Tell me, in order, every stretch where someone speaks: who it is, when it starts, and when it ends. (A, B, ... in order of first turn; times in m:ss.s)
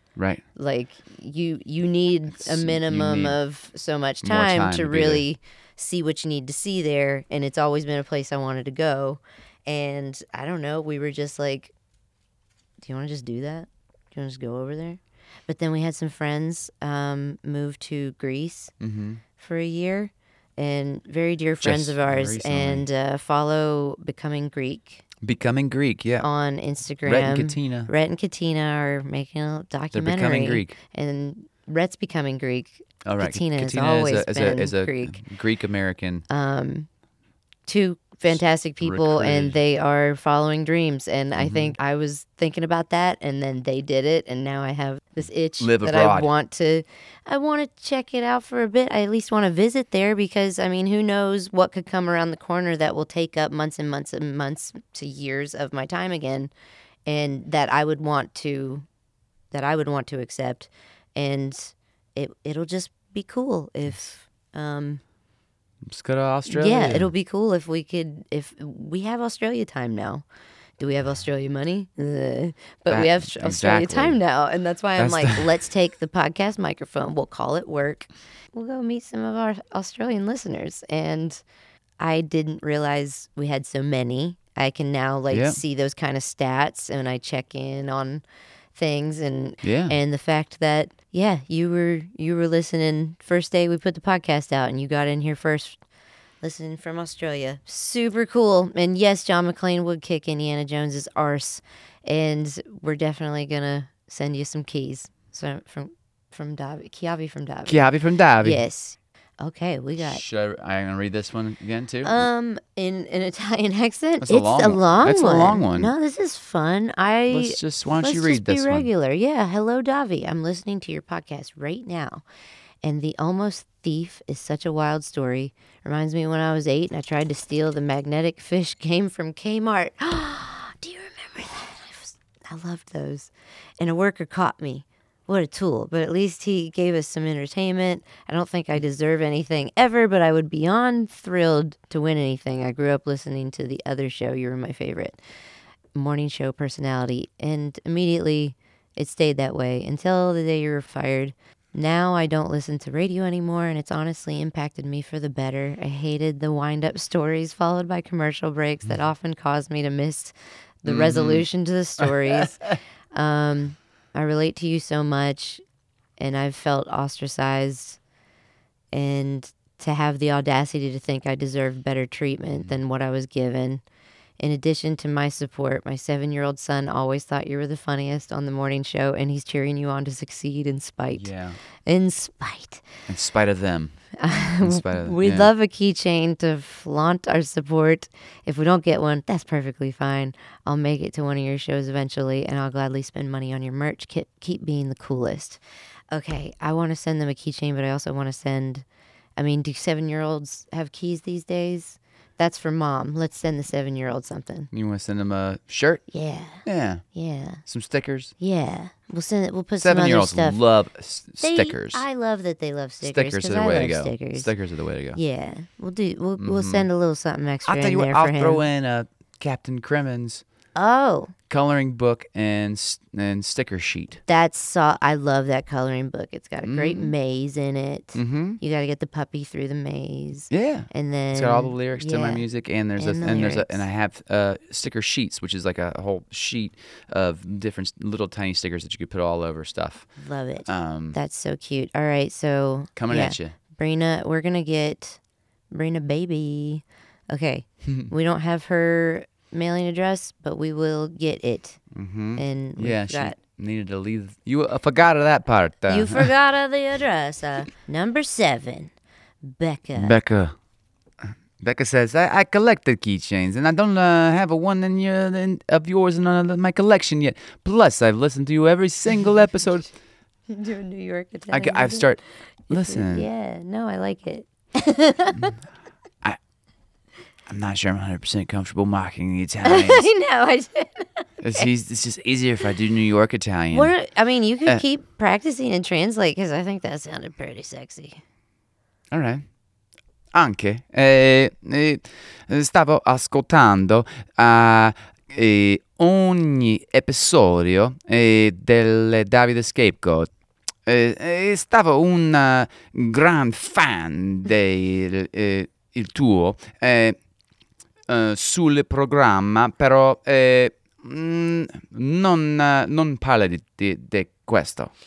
0:00.2-0:00.4 A
0:00.6-0:11.7 B
0:02.4-0:03.4 A
0:04.2-0:05.2 A
0:12.8-0:18.7 B
0:18.8-0:19.2 A
0:19.4-0:25.0 B
0:21.6-0:22.9 A
0:25.2-0:26.2 A
0:26.2-0:35.2 B
0:27.0-0:27.9 A
0:29.9-0:30.8 A
0:33.0-0:36.2 A
0:36.3-0:36.9 B
0:37.7-0:56.5 B
0:38.8-0:39.6 A
0:41.4-0:41.8 A
0:45.6-0:46.3 A
0:57.1-0:58.8 B
0:59.5-1:05.0 B
1:05.8-1:07.1 A
1:06.5-1:10.2 B
1:10.8-1:21.4 B
1:12.9-1:14.2 A
1:15.0-1:15.5 A
1:22.0-1:28.2 B
1:25.3-1:25.6 A
1:28.8-1:35.8 B
1:29.6-1:30.0 A
1:36.4-1:47.8 B
1:47.7-1:48.6 A
1:48.4-1:50.2 B
1:50.0-1:52.2 A
1:52.0-2:02.2 B
1:54.2-1:55.9 A
1:57.3-1:58.9 A
2:02.8-2:25.2 B
2:26.0-2:45.6 B
2:40.9-2:41.4 A
2:42.0-2:42.4 A
2:46.2-2:48.0 B
2:48.9-2:53.8 B
2:54.4-3:01.3 B
3:01.1-3:01.6 A
3:01.9-3:02.8 B
3:03.1-3:04.0 A
3:04.2-3:18.8 B
3:04.5-3:05.5 A
3:19.4-3:24.7 B
3:24.7-3:26.0 A
3:26.1-3:27.6 B
3:26.6-3:27.0 A
3:27.7-3:28.3 A
3:28.4-3:30.6 B
3:29.8-3:32.0 A
3:31.4-3:34.5 B
3:33.0-3:35.2 A
3:35.1-3:38.6 B
3:36.4-3:36.9 A
3:37.7-3:40.4 A
3:40.8-3:41.3 B
3:41.5-3:44.2 A
3:44.3-3:52.4 B
3:46.6-3:47.1 A
3:48.2-3:48.6 A
3:50.5-4:00.1 A
3:53.0-3:53.8 B
4:00.2-4:05.2 B
4:00.7-4:01.2 A
4:03.0-4:03.6 A
4:05.7-4:11.8 B
4:07.8-4:08.1 A
4:11.9-4:16.3 A
4:12.4-4:13.4 B
4:15.9-4:18.9 B
4:19.4-4:20.2 B
4:20.0-4:20.6 A
4:21.6-4:29.9 A
4:30.5-4:35.6 B
4:31.5-4:33.3 A
4:37.5-4:40.1 A
4:39.6-4:41.7 B
4:41.4-4:43.9 A
4:43.7-4:48.2 B
4:49.1-4:49.4 A
4:50.3-5:00.3 A
5:00.9-5:07.2 A
5:08.1-5:14.9 A